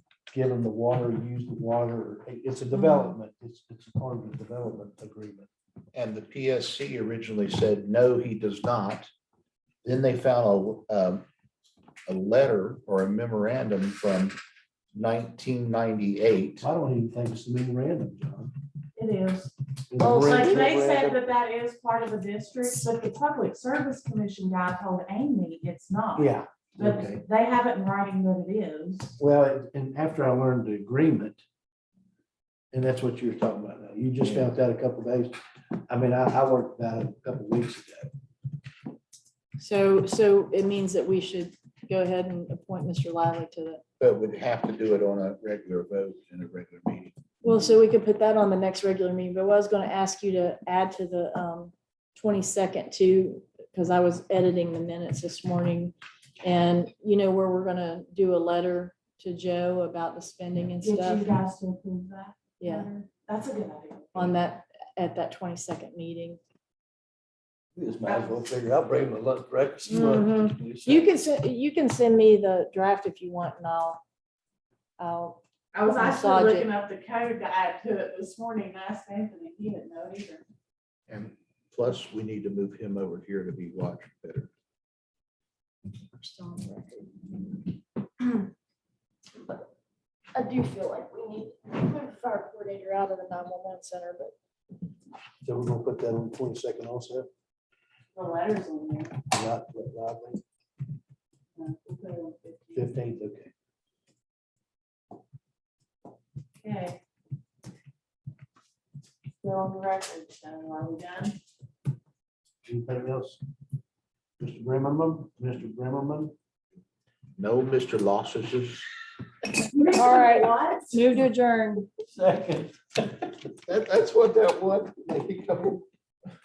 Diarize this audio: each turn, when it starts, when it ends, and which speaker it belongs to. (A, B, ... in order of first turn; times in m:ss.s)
0:00.3-0:05.5 A
0:02.7-0:03.2 B
0:05.9-0:09.1 C
0:09.8-0:11.2 C
0:12.1-0:14.4 C
0:14.9-0:16.7 C
0:16.6-0:18.5 A
0:19.0-0:19.6 D
0:19.9-0:21.2 A
0:20.0-0:20.8 B
0:20.2-0:29.2 D
0:26.2-0:27.2 A
0:29.2-0:31.4 A
0:32.7-0:38.1 A
0:34.2-0:34.5 C
0:39.6-0:43.8 B
0:44.0-0:47.1 C
0:47.4-1:01.3 B
1:00.8-1:04.3 D
1:02.6-1:02.9 B
1:04.2-1:06.4 B
1:07.8-1:11.1 A
1:08.1-1:08.4 D
1:09.9-1:14.0 B
1:15.0-1:16.7 B
1:15.7-1:20.4 D
1:21.1-1:24.5 C
1:26.0-1:27.6 B
1:28.2-1:28.5 B
1:30.3-1:34.3 B
1:35.4-1:37.3 A
1:38.2-1:39.2 D
1:39.3-1:40.4 A
1:41.6-1:42.9 D
1:42.8-1:43.5 A
1:46.6-1:47.0 D
1:49.4-1:51.4 D
1:52.6-1:53.4 A
1:54.4-1:56.4 A
1:57.4-1:58.9 C
1:59.7-2:01.0 D
1:59.9-2:01.9 B
2:02.1-2:03.3 A
2:03.7-2:05.8 C